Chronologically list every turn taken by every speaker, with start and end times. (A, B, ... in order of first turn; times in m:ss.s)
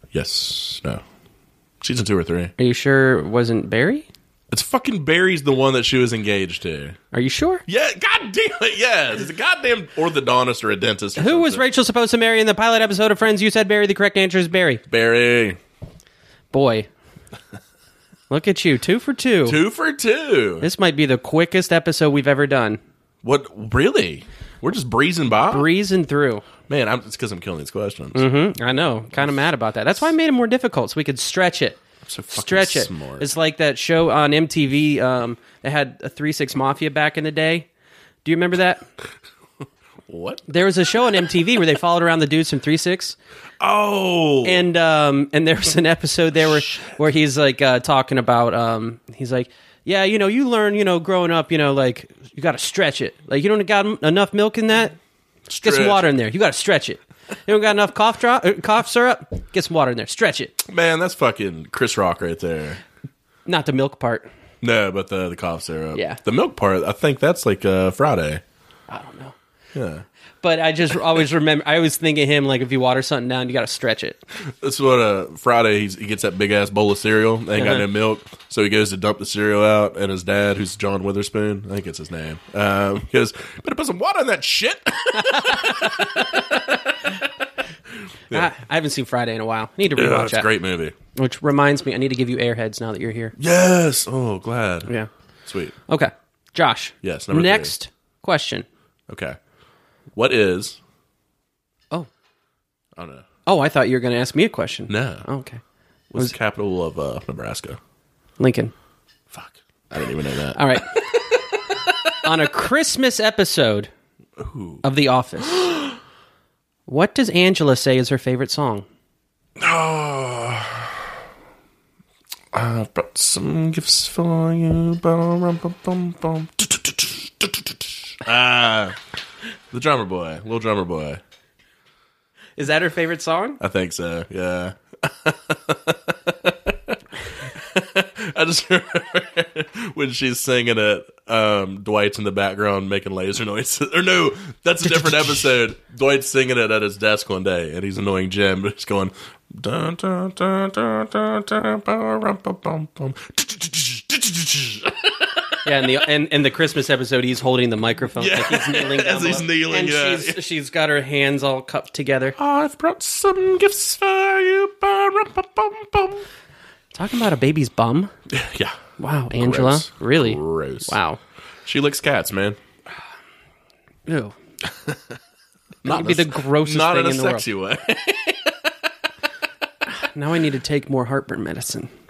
0:00.1-0:01.0 A
0:01.8-0:02.5 A
0:02.6-0:04.1 B
0:04.5-0:07.0 A
0:07.1-0:07.6 B
0:07.7-0:11.6 A
0:11.2-0:14.8 B
0:14.9-0:15.6 A
0:16.5-0:16.9 B
0:18.3-0:19.6 B
0:19.4-0:20.7 A
0:20.6-0:22.8 B
0:23.2-0:25.7 A
0:25.5-0:26.4 B
0:26.7-0:28.3 A
0:28.1-0:37.7 B
0:32.1-0:33.3 A
0:38.2-0:38.8 B
0:40.1-0:40.5 A
0:40.5-0:43.2 B
0:43.6-0:44.7 A
0:44.4-0:55.0 B
0:55.5-0:56.1 A
0:55.6-1:00.6 B
1:00.6-1:02.8 A
1:03.4-1:04.3 B
1:04.6-1:08.4 A
1:05.9-1:06.2 B
1:08.9-1:09.3 B
1:09.7-1:10.0 A
1:10.4-1:14.2 B
1:14.4-1:27.2 A
1:17.6-1:17.8 B
1:25.2-1:26.5 B
1:28.3-1:30.5 B
1:29.9-1:30.9 A
1:31.1-1:33.4 B
1:33.4-1:34.9 A
1:35.4-1:35.7 A
1:35.9-1:38.6 B
1:37.0-1:37.7 A
1:39.1-1:39.4 A
1:40.1-1:40.8 A
1:43.0-1:43.3 A
1:43.4-1:45.6 B
1:44.9-1:45.2 A
1:46.1-1:47.8 A
1:48.4-1:48.7 B
1:49.3-1:51.0 A
1:50.5-1:51.2 B
1:52.2-1:53.9 B
1:54.4-1:54.8 A
1:54.8-1:55.7 B
1:55.5-1:56.0 A
1:56.9-1:58.8 B
1:59.6-2:01.1 A
2:02.5-2:09.0 A
2:09.7-2:11.2 A
2:12.6-2:13.6 B
2:13.6-2:35.9 A
2:35.6-2:42.4 B
2:38.2-2:40.4 A
2:42.4-2:46.2 A
2:46.9-2:48.1 B
2:48.3-2:48.8 A
2:49.0-2:51.2 B
2:49.3-2:50.9 A
2:51.6-2:52.6 A
2:54.1-2:54.3 B
2:54.6-2:55.2 A
2:55.8-2:58.9 A
2:55.8-2:57.4 B
2:59.8-3:01.9 B